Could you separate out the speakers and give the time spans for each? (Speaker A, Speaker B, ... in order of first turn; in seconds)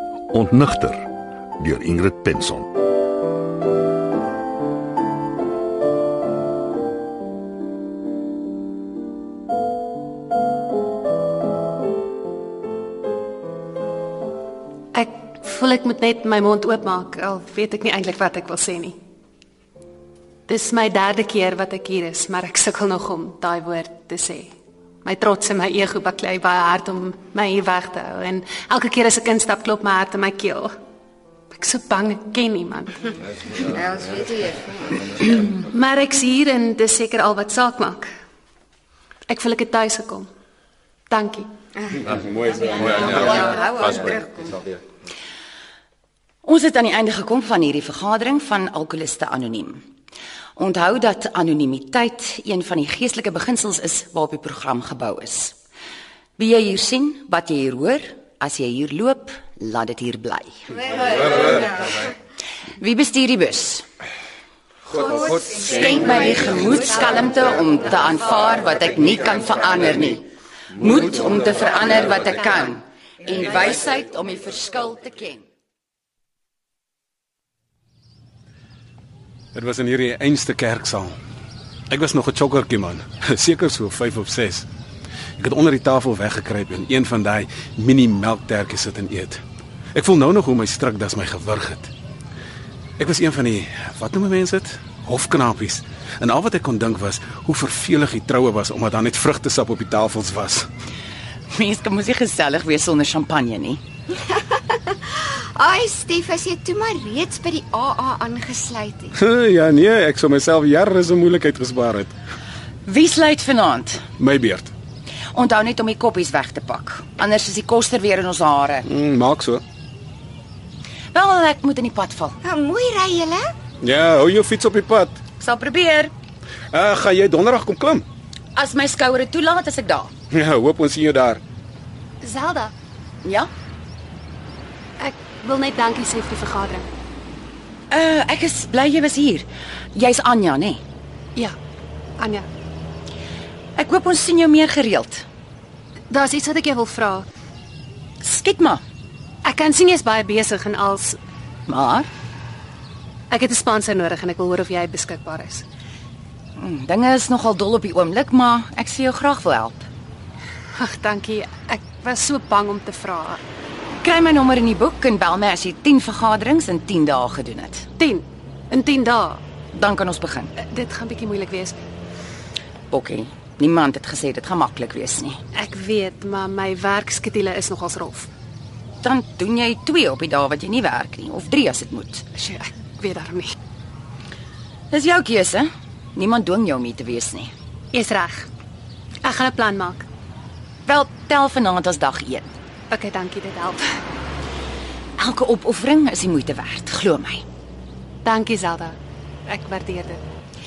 Speaker A: 0.3-2.7
Speaker B: 14.9-19.0, 20.5-24.5, 25.0-30.7, 31.5-33.1, 35.4-38.1, 39.3-40.3, 41.1-41.5, 132.2-132.7, 135.0-136.9, 142.2-142.5, 146.1-147.3, 149.4-151.2, 153.3-155.7, 160.8-163.4, 168.0-169.4, 170.6-171.8, 175.5-178.3, 182.3-183.5, 187.9-188.5, 189.2-190.1, 192.9-193.8, 198.2-200.2
Speaker C: 33.7-35.0, 43.1-44.5, 105.5-109.1, 122.4-123.5
Speaker D: 46.4-49.8, 50.6-55.5, 56.4-61.9, 62.8-63.9, 65.1-70.2, 70.8-75.4, 101.5-103.8, 112.8-114.0, 115.3-118.9, 121.1-122.4, 125.4-126.1, 128.6-130.1, 133.2-133.5, 137.9-140.8, 143.8-145.2, 148.2-148.8, 151.7-152.1, 156.6-159.8, 164.0-167.9, 169.7-170.5, 172.9-175.4, 179.0-182.3, 184.9-187.5, 190.9-192.5, 195.2-197.4
Speaker E: 79.5-81.2, 81.9-84.7, 85.4-89.4, 90.0-91.9, 93.0-100.7, 109.2-112.1, 114.2-114.7, 118.9-119.6, 123.8-125.2, 126.7-128.1, 130.3-131.4